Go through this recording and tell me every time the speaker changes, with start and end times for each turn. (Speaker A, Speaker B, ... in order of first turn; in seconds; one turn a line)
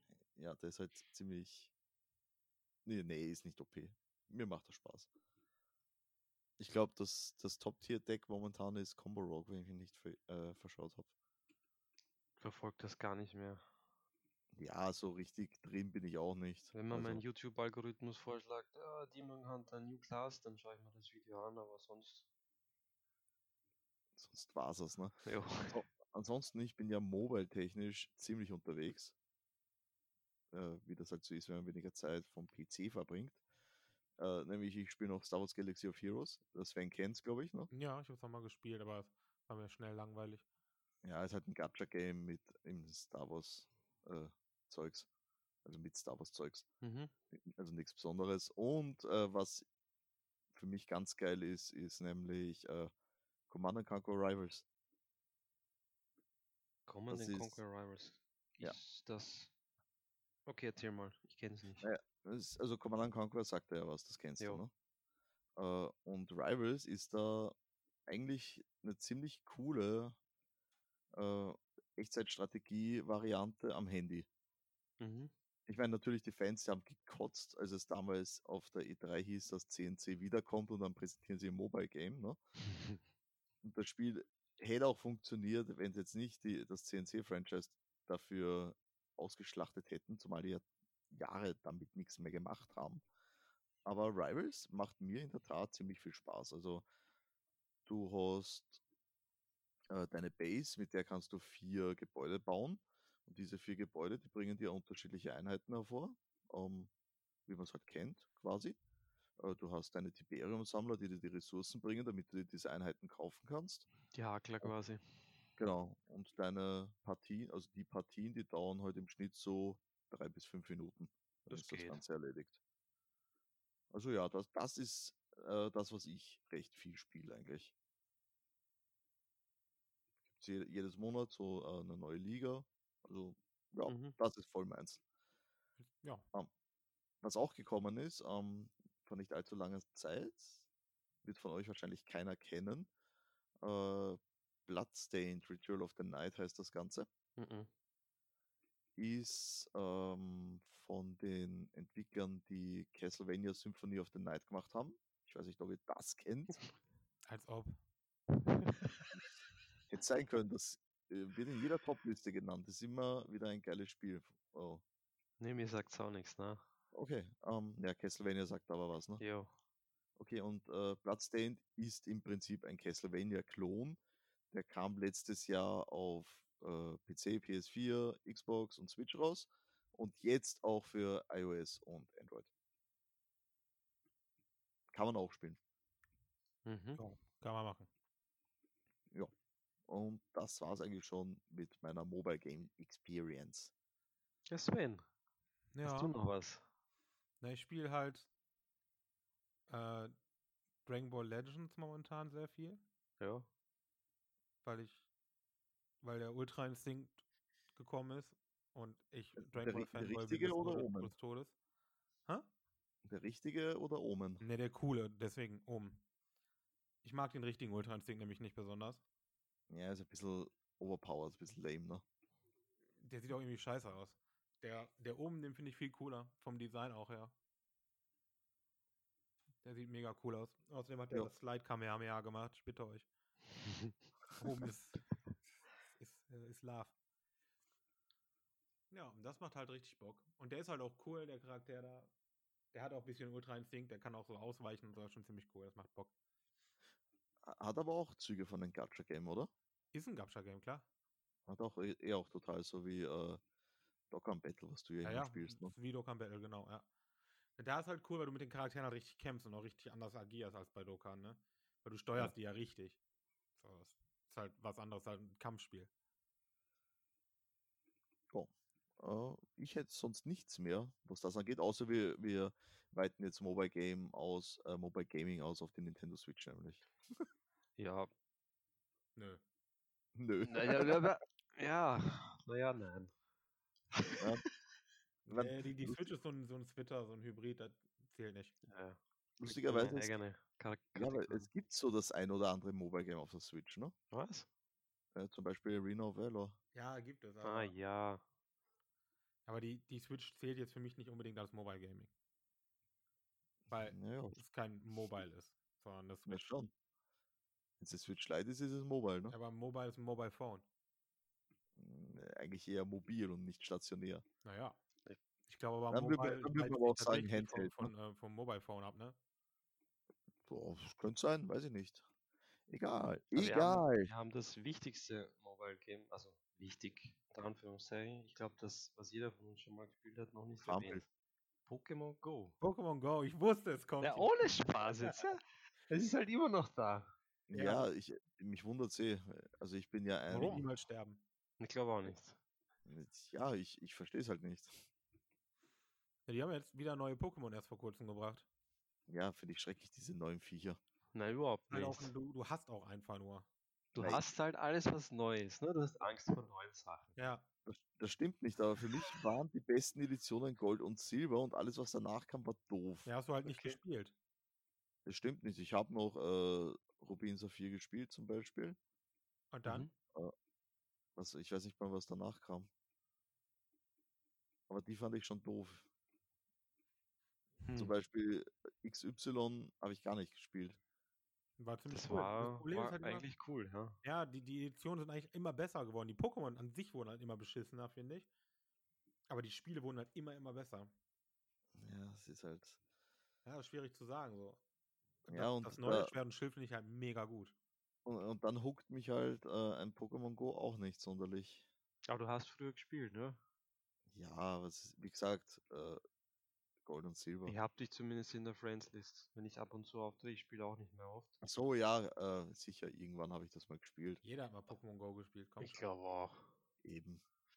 Speaker A: 0.3-1.7
Speaker A: 2.9-5.1
Speaker A: 6.6-11.1
Speaker B: 12.4-13.6
Speaker A: 14.6-17.2
Speaker B: 16.7-22.3
Speaker A: 24.2-25.2
Speaker B: 25.2-25.8
Speaker A: 25.7-29.1
Speaker A: 30.5-33.4
Speaker A: 34.2-37.7
Speaker C: 37.7-40.5
Speaker A: 41.0-45.1
Speaker A: 45.6-46.7
Speaker B: 46.8-47.1
Speaker A: 47.3-49.7
Speaker A: 50.5-52.9
Speaker A: 53.5-54.6
Speaker B: 56.9-59.5
Speaker A: 57.1-57.6
Speaker B: 60.5-61.9
Speaker A: 61.8-64.7
Speaker A: 65.6-67.5
Speaker A: 68.1-70.2
Speaker A: 71.2-74.3
Speaker B: 75.0-75.3
Speaker A: 75.7-82.4
Speaker B: 82.7-83.0
Speaker A: 83.6-93.0
Speaker A: 93.9-96.8
Speaker A: 97.9-98.8
Speaker A: 99.9-106.9
Speaker A: 107.5-108.8
Speaker A: 109.4-113.9
Speaker B: 114.1-115.0
Speaker A: 115.6-122.6
Speaker B: 121.5-122.0
Speaker A: 123.9-127.7
Speaker A: 130.3-135.0
Speaker B: 133.9-134.2
Speaker C: 135.8-136.2
Speaker A: 137.2-140.6
Speaker A: 141.2-142.9
Speaker A: 143.6-147.1
Speaker B: 147.4-147.7
Speaker A: 149.0-156.6
Speaker C: 157.3-157.8
Speaker B: 158.5-159.1
Speaker A: 159.9-164.8
Speaker B: 165.4-166.6
Speaker A: 166.9-169.2
Speaker B: 169.2-169.5
Speaker A: 170.2-174.0
Speaker A: 174.5-182.5
Speaker A: 184.9-185.6
Speaker B: 186.7-187.0
Speaker C: 187.0-187.9
Speaker A: 189.9-193.7
Speaker B: 194.5-195.0
Speaker C: 195.7-196.1
Speaker B: 195.8-196.6
Speaker C: 197.4-198.3
Speaker C: 199.7-200.2
Speaker C: 200.8-202.8
Speaker B: 203.2-203.5
Speaker C: 204.6-205.1
Speaker C: 206.0-207.2
Speaker C: 207.7-211.5
Speaker A: 209.4-211.1
Speaker A: 213.1-214.4
Speaker C: 214.4-216.0
Speaker C: 217.0-219.0
Speaker A: 219.7-222.0
Speaker C: 223.0-227.3
Speaker C: 229.6-233.1
Speaker B: 233.7-233.9
Speaker C: 234.4-235.0
Speaker C: 235.9-236.9
Speaker C: 238.9-242.1
Speaker C: 242.7-246.1
Speaker A: 247.4-249.5
Speaker C: 249.9-250.9
Speaker A: 251.5-253.4
Speaker A: 254.1-255.7
Speaker C: 255.0-256.9
Speaker C: 257.6-263.0
Speaker C: 263.6-265.9
Speaker A: 268.3-277.2
Speaker B: 277.8-278.1
Speaker C: 279.2-279.4
Speaker A: 280.1-281.1
Speaker B: 280.4-283.1
Speaker B: 283.9-284.3
Speaker A: 285.3-286.1
Speaker C: 285.3-288.6
Speaker B: 288.6-291.5
Speaker A: 289.4-290.2
Speaker A: 291.0-293.9
Speaker B: 294.1-294.5
Speaker A: 295.1-296.6
Speaker C: 296.7-297.7
Speaker B: 297.4-298.2
Speaker C: 299.5-302.1
Speaker A: 303.7-304.4
Speaker C: 303.7-306.5
Speaker A: 306.3-306.7
Speaker A: 307.8-309.4
Speaker C: 309.3-310.6
Speaker A: 311.8-314.2
Speaker C: 314.4-314.8
Speaker C: 315.5-319.2
Speaker A: 315.9-317.9
Speaker A: 320.4-322.1
Speaker A: 322.7-324.1
Speaker B: 323.4-331.1
Speaker A: 330.6-331.0
Speaker B: 331.7-332.6
Speaker C: 332.6-335.2
Speaker B: 334.0-337.1
Speaker A: 337.5-340.7
Speaker C: 337.5-337.9
Speaker C: 340.3-341.2
Speaker B: 341.6-342.4
Speaker A: 342.9-344.8
Speaker C: 346.3-348.5
Speaker A: 349.1-350.8
Speaker B: 351.1-352.1
Speaker C: 351.7-353.5
Speaker B: 353.9-357.1
Speaker A: 354.0-354.2
Speaker C: 357.2-357.5
Speaker A: 357.7-363.1
Speaker C: 363.1-364.1
Speaker B: 363.5-363.8
Speaker A: 365.1-368.8
Speaker C: 369.5-369.9
Speaker A: 371.2-372.7
Speaker A: 374.7-375.9
Speaker B: 377.6-377.9
Speaker A: 377.8-380.8
Speaker C: 381.6-383.3
Speaker B: 381.9-384.0
Speaker C: 384.0-388.3
Speaker C: 389.3-390.9
Speaker A: 391.8-392.8
Speaker C: 393.4-394.6
Speaker A: 395.3-396.1
Speaker C: 395.3-397.5
Speaker A: 398.1-401.7
Speaker B: 402.1-403.4
Speaker A: 404.1-406.0
Speaker A: 406.8-407.6
Speaker B: 407.5-411.4
Speaker A: 411.4-414.2
Speaker C: 414.2-415.8
Speaker B: 415.6-416.5
Speaker A: 416.8-417.2